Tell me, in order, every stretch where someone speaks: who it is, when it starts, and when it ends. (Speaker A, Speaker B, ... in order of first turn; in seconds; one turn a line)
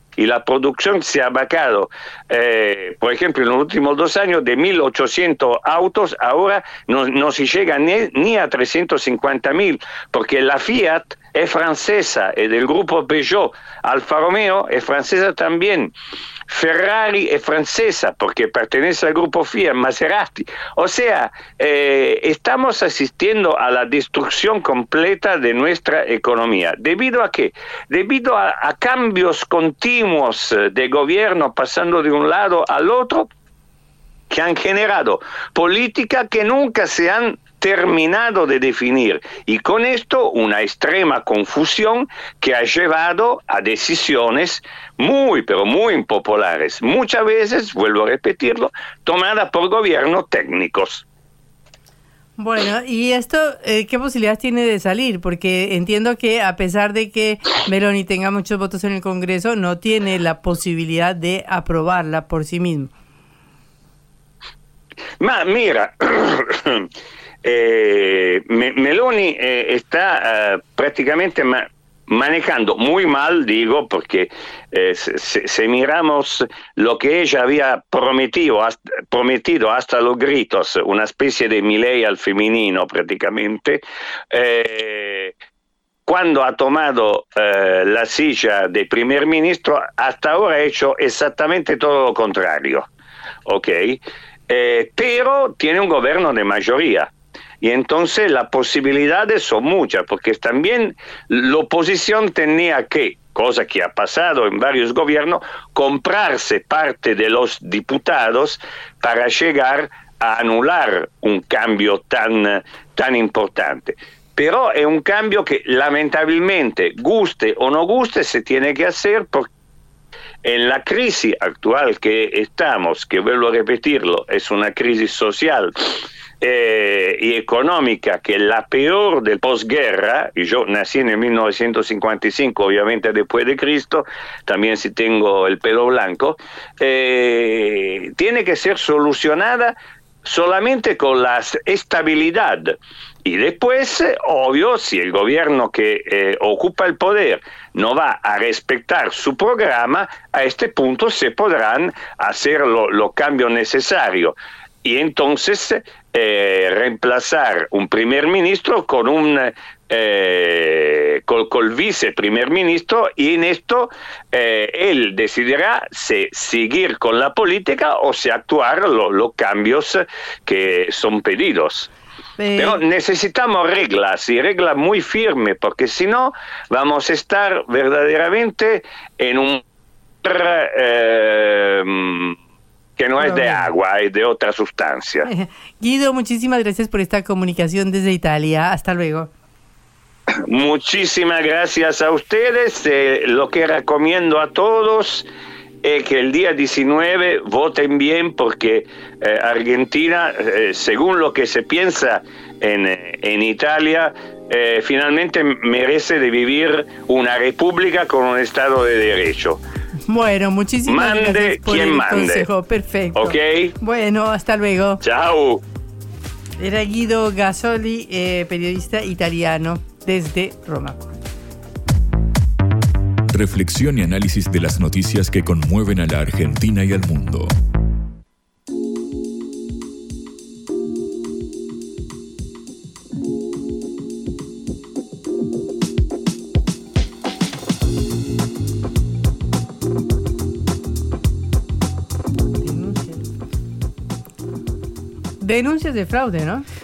Speaker A: 0.2-15.9
Speaker A: 16.5-33.3
Speaker A: 34.3-51.0
Speaker B: 52.4-62.9
Speaker A: 65.2-66.9
Speaker A: 67.4-83.8
Speaker A: 84.3-85.3
Speaker A: 86.1-92.9
Speaker A: 93.5-119.5
Speaker A: 120.4-171.9
Speaker B: 172.4-172.8
Speaker A: 172.6-179.6
Speaker A: 180.2-182.4
Speaker A: 183.0-185.3
Speaker B: 183.2-183.7
Speaker B: 185.3-189.3
Speaker A: 190.5-195.3
Speaker A: 195.8-209.6
Speaker B: 210.1-215.0
Speaker A: 210.9-212.5
Speaker A: 213.2-213.7
Speaker A: 215.0-215.6
Speaker B: 216.6-221.1
Speaker C: 223.3-227.5
Speaker B: 242.6-243.2
Speaker B: 245.4-246.7